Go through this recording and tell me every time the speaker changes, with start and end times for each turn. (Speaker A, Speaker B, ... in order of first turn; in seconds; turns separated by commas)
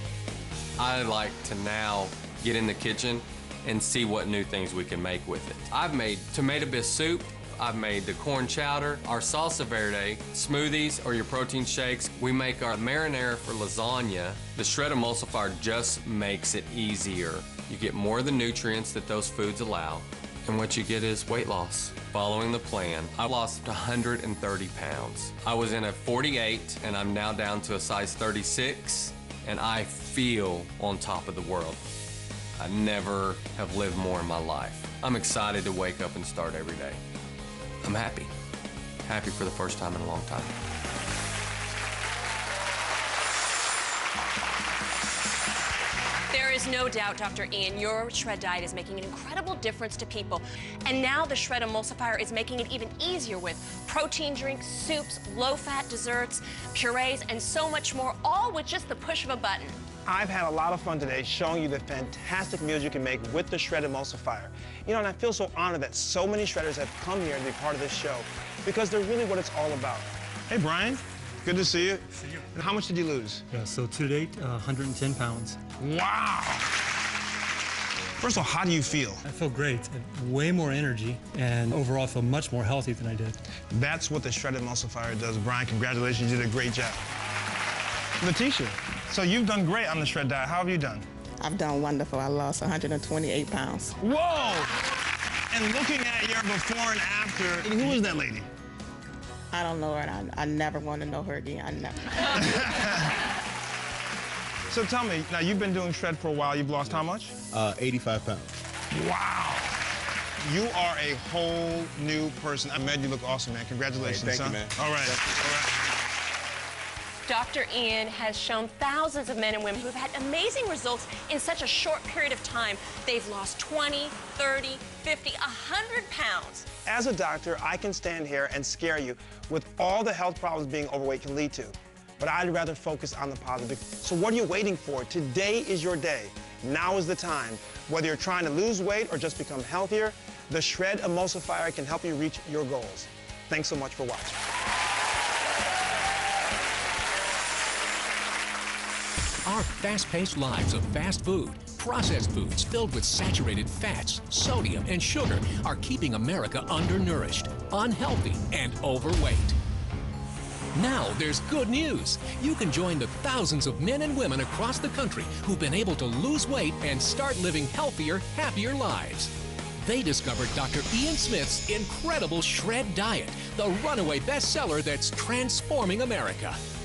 Speaker A: 0.8-31.8, Speaker A: 32.6-37.0, Speaker A: 37.8-38.3, Speaker A: 39.0-40.5, Speaker B: 46.3-59.9, Speaker C: 60.1-73.4, Speaker D: 72.1-72.5, Speaker D: 73.5-75.6, Speaker C: 75.8-76.7, Speaker C: 78.2-79.2, Speaker D: 79.2-83.4, Speaker C: 83.7-87.1, Speaker C: 88.2-91.1, Speaker E: 91.4-94.0, Speaker C: 94.0-94.8, Speaker C: 95.5-98.5, Speaker E: 99.5-102.4, Speaker C: 102.3-103.2, Speaker C: 104.7-107.4, Speaker F: 107.5-108.5, Speaker C: 108.9-109.8, Speaker C: 110.4-115.7, Speaker F: 114.0-115.3, Speaker B: 117.3-126.7, Speaker C: 126.9-144.4, Speaker G: 149.4-159.6, Speaker G: 160.8-176.6